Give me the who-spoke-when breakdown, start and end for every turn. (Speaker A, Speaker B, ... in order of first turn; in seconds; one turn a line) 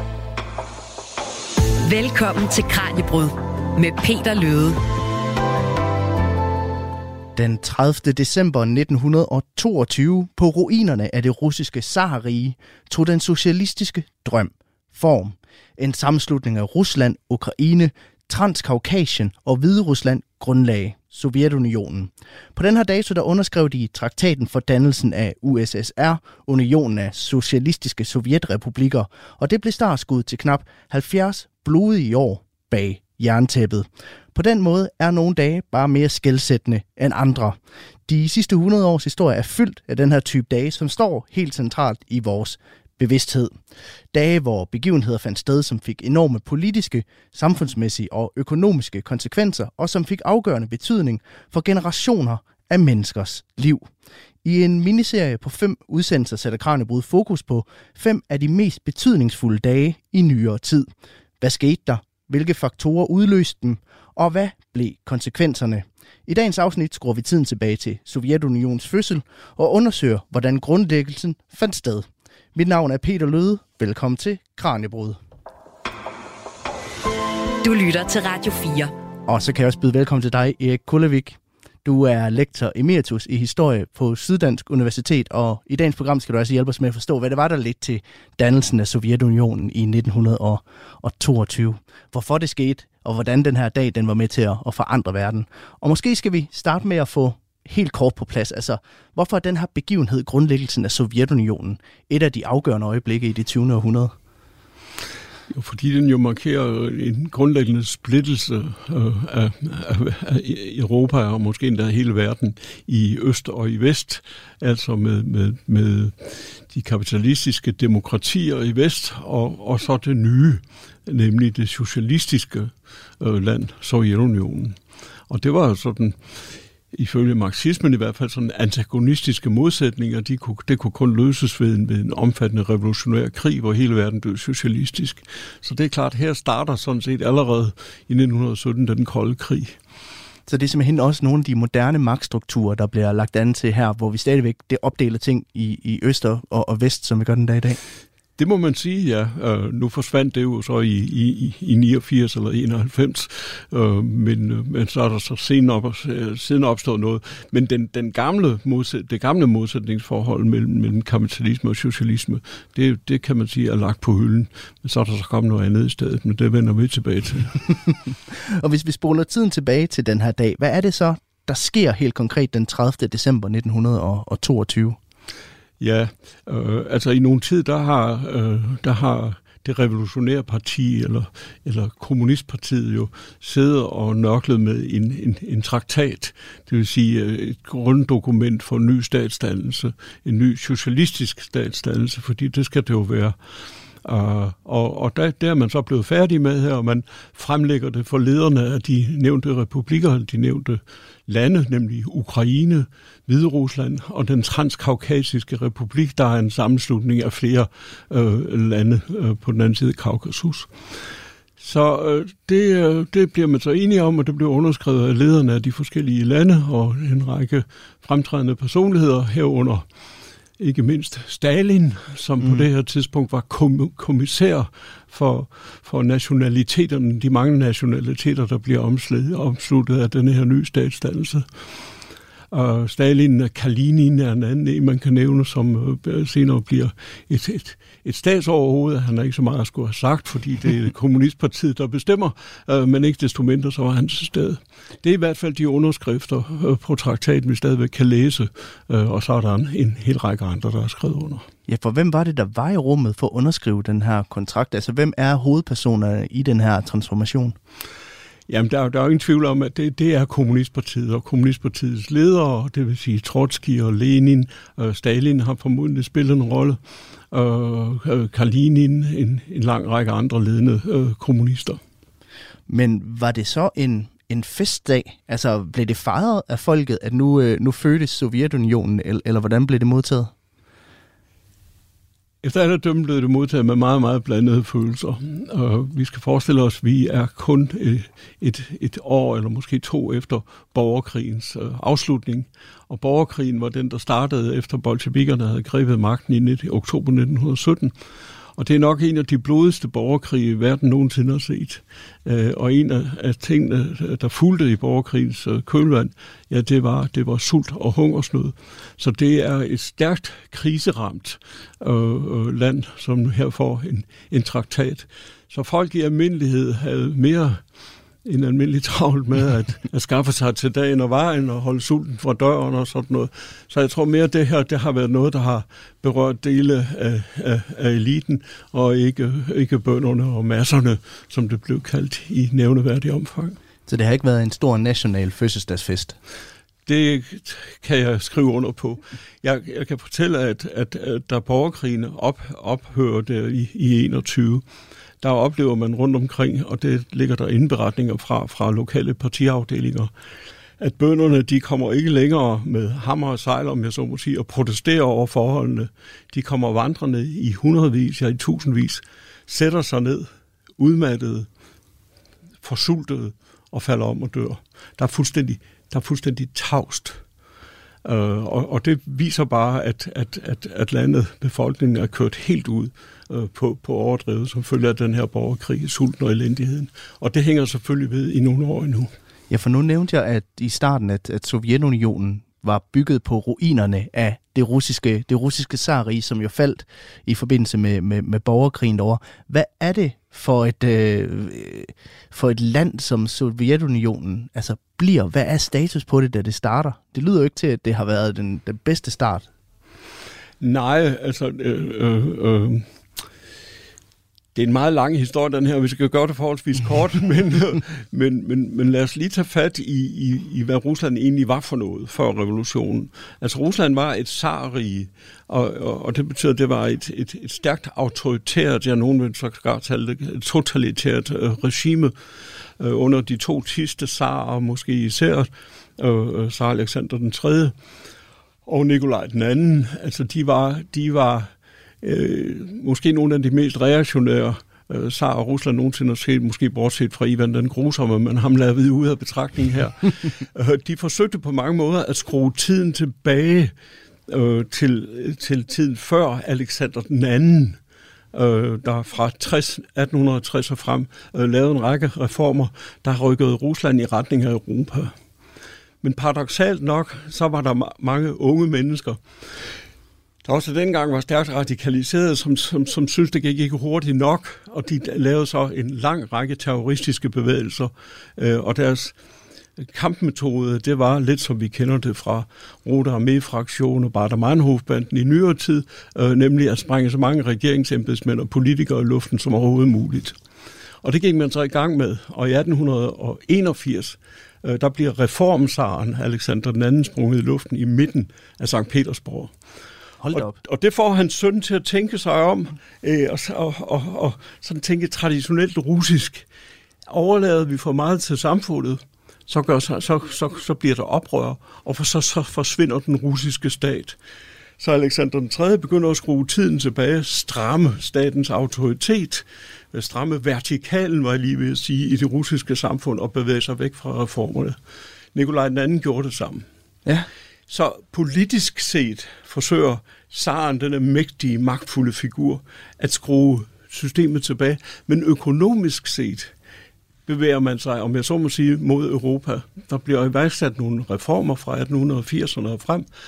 Speaker A: 1.9-4.8
Speaker B: 7.4-43.5
Speaker B: 44.1-53.9
Speaker B: 54.4-75.2
Speaker A: 77.6-78.9
Speaker B: 79.3-104.1
Speaker C: 105.5-126.2
Speaker C: 126.9-139.8
Speaker B: 140.5-147.8
Speaker C: 148.4-167.6
Speaker B: 168.4-175.0
Speaker C: 175.8-193.4
Speaker C: 194.0-210.7
Speaker C: 211.6-219.9
Speaker C: 220.6-231.5
Speaker C: 232.5-251.5
Speaker B: 251.7-257.6
Speaker C: 258.5-266.8
Speaker C: 267.3-271.8
Speaker B: 272.7-280.3
Speaker C: 282.4-297.9
Speaker C: 298.6-317.6
Speaker C: 318.2-333.6
Speaker B: 333.9-336.2
Speaker C: 336.9-344.6
Speaker C: 345.2-350.1
Speaker C: 350.8-361.5
Speaker C: 362.6-367.2
Speaker C: 368.0-379.1
Speaker B: 379.5-399.5
Speaker C: 400.6-402.9
Speaker C: 404.6-422.1
Speaker C: 422.8-427.8
Speaker C: 428.6-443.7
Speaker C: 444.3-447.8
Speaker C: 448.3-455.1
Speaker C: 456.0-459.2
Speaker C: 460.4-469.1
Speaker C: 469.8-480.4
Speaker C: 481.0-489.5
Speaker B: 490.2-490.6
Speaker C: 490.3-496.5
Speaker C: 497.1-504.2
Speaker C: 504.8-514.8
Speaker C: 515.3-516.7
Speaker C: 517.7-526.5
Speaker C: 527.3-533.1